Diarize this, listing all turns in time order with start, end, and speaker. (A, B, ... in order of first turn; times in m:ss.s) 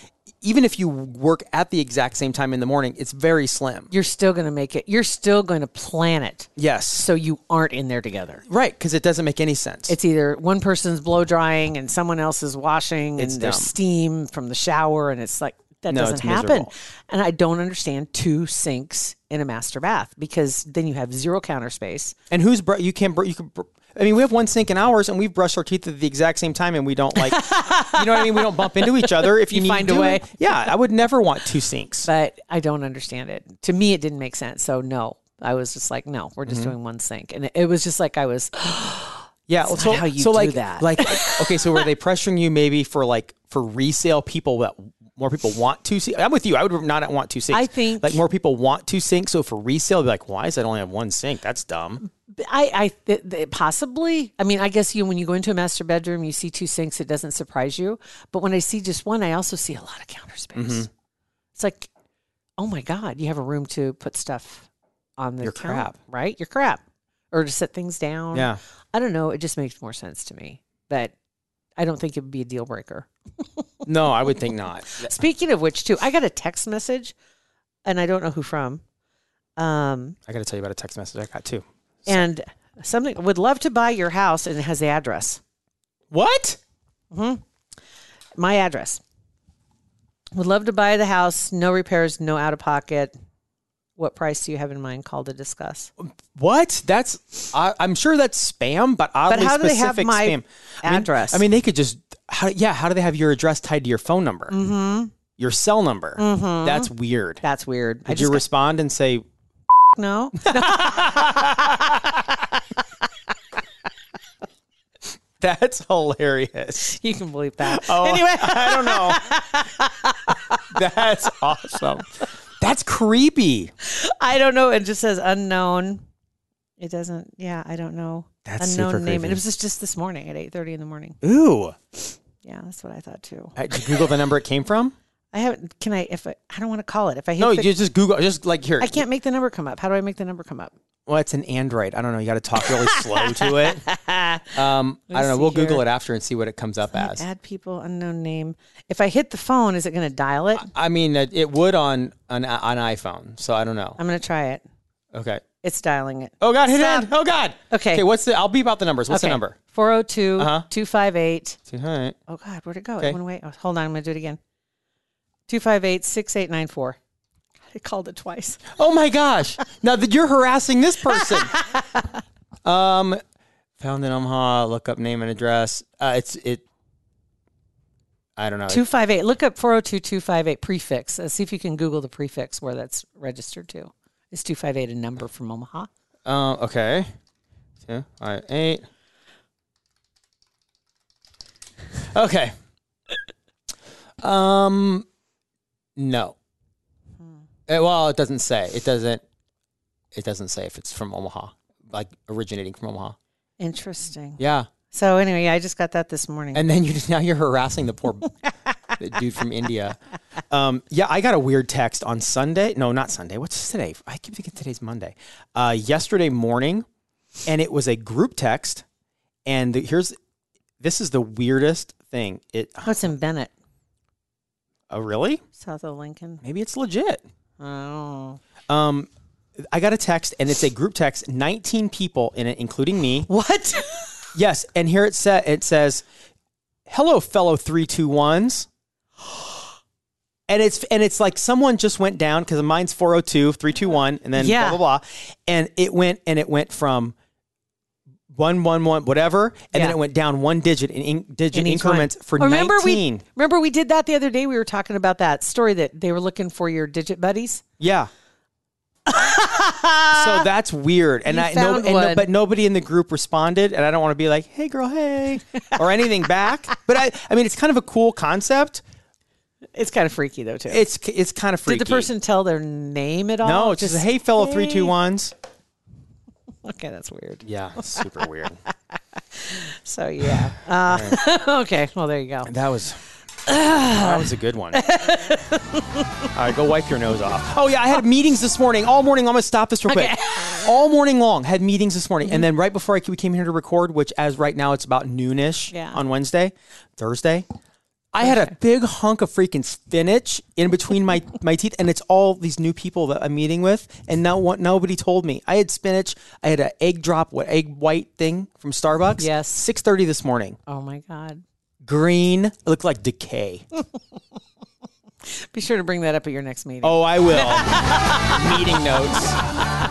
0:00.4-0:03.9 A
0:03.9-0:08.4 B
0:06.6-0:07.1 A
0:08.5-0:10.0 A
0:09.9-0:22.2 B
0:13.2-0:13.8 A
0:15.9-0:16.7 A
0:22.3-0:32.1 A
0:27.2-0:30.7 B
0:32.0-0:41.7 B
0:36.4-0:36.7 A
0:39.5-0:52.0 A
0:47.5-0:48.2 B
0:52.3-1:00.9 B
1:00.5-1:00.9 A
1:01.6-1:01.9 B
1:02.6-1:11.1 B
1:05.4-1:06.0 A
1:08.3-1:08.6 A
1:11.8-1:13.6 B
1:13.8-1:15.1 A
1:14.9-1:17.1 B
1:17.8-1:18.8 B
1:19.6-1:20.2 B
1:20.3-1:22.3 A
1:22.1-1:25.4 B
1:26.1-1:26.6 A
1:27.1-1:27.4 B
1:28.4-1:29.0 B
1:30.4-1:33.1 B
1:34.0-1:35.9 B
1:36.0-1:44.5 A
1:39.3-1:41.4 B
1:44.5-1:45.1 B
1:45.4-1:47.4 A
1:46.2-1:46.9 B
1:47.4-1:48.4 B
1:48.1-1:49.2 A
1:49.9-1:52.5 B
1:50.4-1:52.0 A
1:55.4-1:57.0 A
1:56.8-2:00.7 B
1:57.6-1:59.2 A
2:00.7-2:02.1 A
2:02.6-2:03.7 A
2:03.8-2:06.0 B
2:06.8-2:11.2 B
2:08.4-2:09.4 A
2:11.2-2:11.8 A
2:12.4-2:14.1 B
2:13.6-2:14.9 A
2:15.3-2:17.7 B
2:17.4-2:19.0 A
2:18.8-2:20.7 B
2:21.1-2:23.8 A
2:22.6-2:24.6 B
2:24.5-2:27.2 A
2:25.1-2:25.8 B
2:26.9-2:30.7 B
2:30.5-2:34.0 A
2:34.0-2:34.6 B
2:35.1-2:35.4 A
2:35.6-2:37.1 B
2:36.4-2:39.6 A
2:37.7-2:38.0 B
2:39.1-2:41.6 B
2:40.4-2:40.7 A
2:41.7-2:42.2 A
2:42.3-2:44.4 B
2:45.5-2:47.0 B
2:47.7-2:48.8 B
2:48.8-2:51.6 A
2:51.0-2:52.2 B
2:52.6-2:53.2 A
2:53.8-2:56.6 A
2:58.4-2:58.8 A
2:58.7-3:05.9 B
3:06.3-3:07.1 A
3:07.9-3:08.8 A
3:12.1-3:12.5 A
3:14.2-3:15.1 A
3:16.0-3:16.4 A
3:17.7-3:19.2 A
3:20.2-3:23.2 A
3:23.6-3:26.7 B
3:24.4-3:24.7 A
3:26.5-3:28.3 A
3:29.0-3:30.0 A
3:30.5-3:36.8 A
3:37.5-3:38.8 A
3:39.5-3:40.2 A
3:40.8-3:43.1 A
3:42.8-3:43.5 B
3:44.9-3:45.4 A
3:45.6-3:46.4 B
3:46.4-3:47.2 A
3:47.6-3:48.4 B
3:48.7-3:49.1 A
3:49.7-3:53.3 A
3:53.3-3:54.3 B
3:54.4-3:56.0 A
3:56.9-3:58.7 A
4:00.5-4:07.2 A
4:04.3-4:04.8 B
4:08.3-4:13.2 A
4:11.5-4:17.6 B
4:17.8-4:18.1 A
4:19.1-4:20.5 B
4:20.1-4:28.8 A
4:21.3-4:22.3 B
4:25.6-4:26.0 B
4:29.8-4:30.9 B
4:30.7-4:32.1 A
4:31.7-4:34.9 B
4:33.4-4:35.3 A
4:36.6-4:38.1 B
4:37.4-4:38.6 A
4:38.9-4:42.5 B
4:40.9-4:41.2 A
4:42.4-4:43.0 A
4:43.4-4:46.3 B
4:43.9-4:44.8 A
4:46.3-4:57.5 A
4:49.9-4:50.7 B
4:55.7-4:56.0 B
4:58.1-5:10.6 A
4:58.2-4:58.5 B
5:09.2-5:09.7 B
5:10.7-5:11.4 B
5:11.8-5:13.7 A
5:15.3-5:18.9 B
5:16.8-5:19.4 A